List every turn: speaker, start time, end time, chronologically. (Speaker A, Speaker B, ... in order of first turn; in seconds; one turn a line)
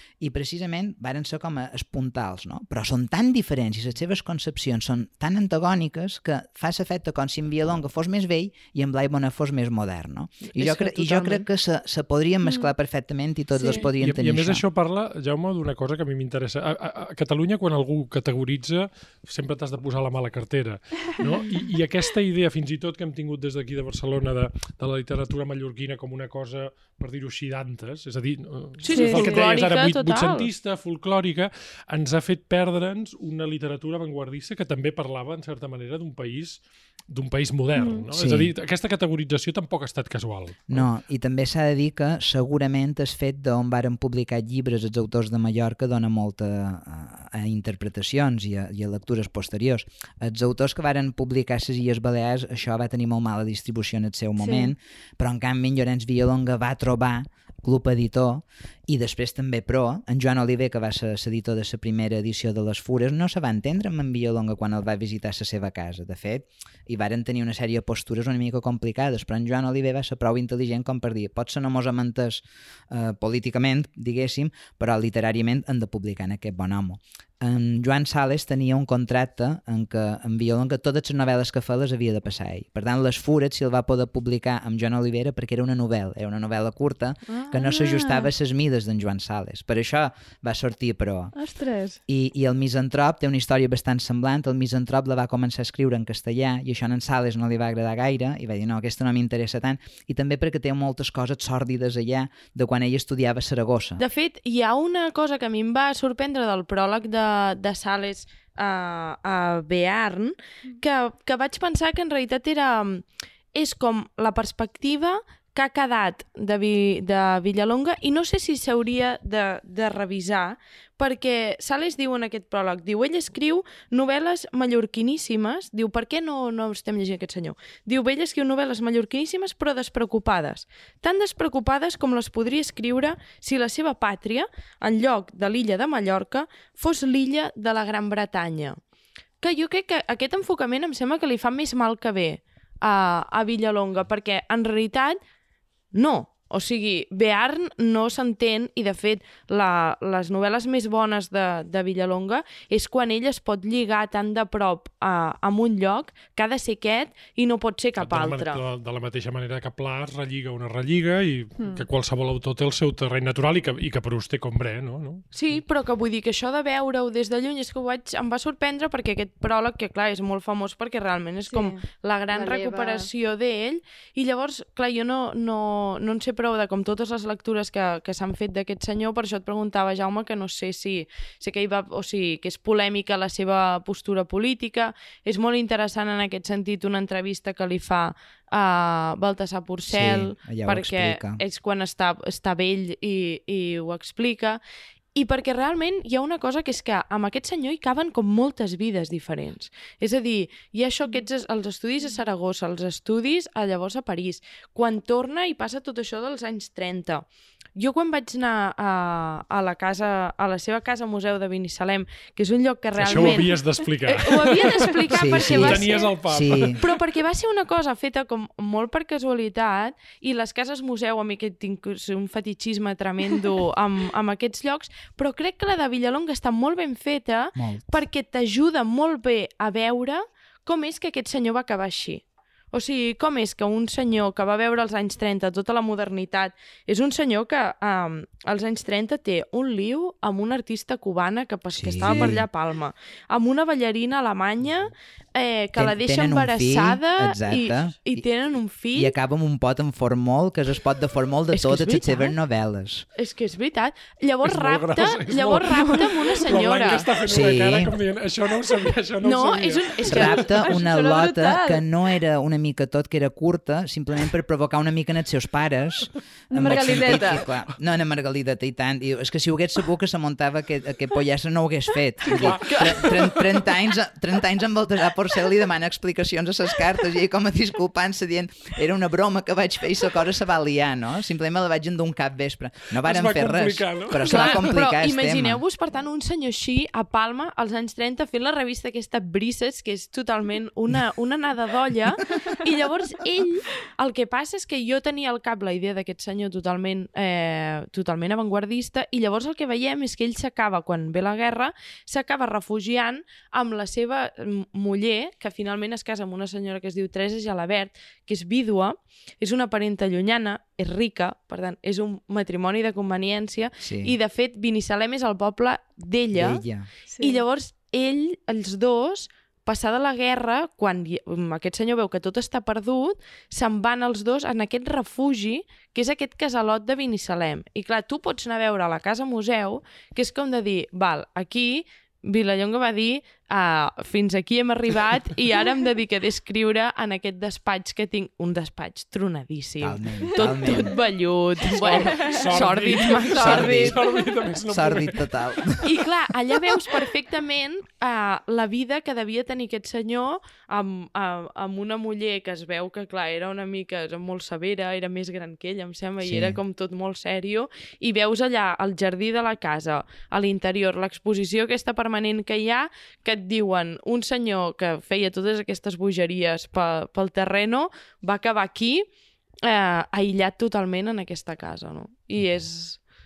Speaker A: 0.2-14.6
Speaker B: 10.5-11.5
Speaker C: 12.4-12.7
Speaker C: 13.5-13.9
Speaker D: 14.0-40.9
Speaker B: 28.8-30.5
Speaker C: 28.9-29.3
Speaker C: 37.8-38.0
Speaker A: 38.1-38.5
Speaker A: 40.7-91.3
Speaker C: 54.4-54.7
Speaker C: 87.3-88.3
Speaker C: 91.4-92.0
Speaker A: 92.1-104.0
Speaker B: 104.0-138.8
Speaker B: 139.4-145.2
Speaker B: 145.9-158.6
Speaker D: 158.0-165.3
Speaker C: 161.6-161.8
Speaker B: 165.3-194.6
Speaker C: 171.5-171.8
Speaker C: 172.3-173.1
Speaker A: 189.9-191.4
Speaker B: 195.2-249.2
Speaker D: 213.0-216.9
Speaker A: 215.1-216.8
Speaker A: 227.6-227.8
Speaker A: 241.7-242.5
Speaker C: 242.0-242.3
Speaker A: 245.8-248.2
Speaker A: 248.9-253.1
Speaker B: 251.5-252.4
Speaker B: 253.2-257.1
Speaker D: 254.4-260.4
Speaker A: 257.3-257.9
Speaker B: 259.2-260.5
Speaker A: 260.1-285.6
Speaker C: 260.5-261.8
Speaker C: 266.5-267.4
Speaker B: 266.6-267.3
Speaker B: 272.3-273.6
Speaker D: 272.3-272.8
Speaker D: 283.0-284.6
Speaker B: 284.2-316.6
Speaker A: 313.8-314.1
Speaker A: 316.3-316.9
Speaker C: 317.1-317.4
Speaker B: 317.2-344.0
Speaker A: 339.8-340.9
Speaker C: 340.3-340.8
Speaker D: 341.6-345.3
Speaker A: 343.3-344.0
Speaker A: 344.7-346.0
Speaker B: 345.8-369.1
Speaker A: 356.2-356.6
Speaker B: 369.6-373.0
Speaker A: 372.4-372.7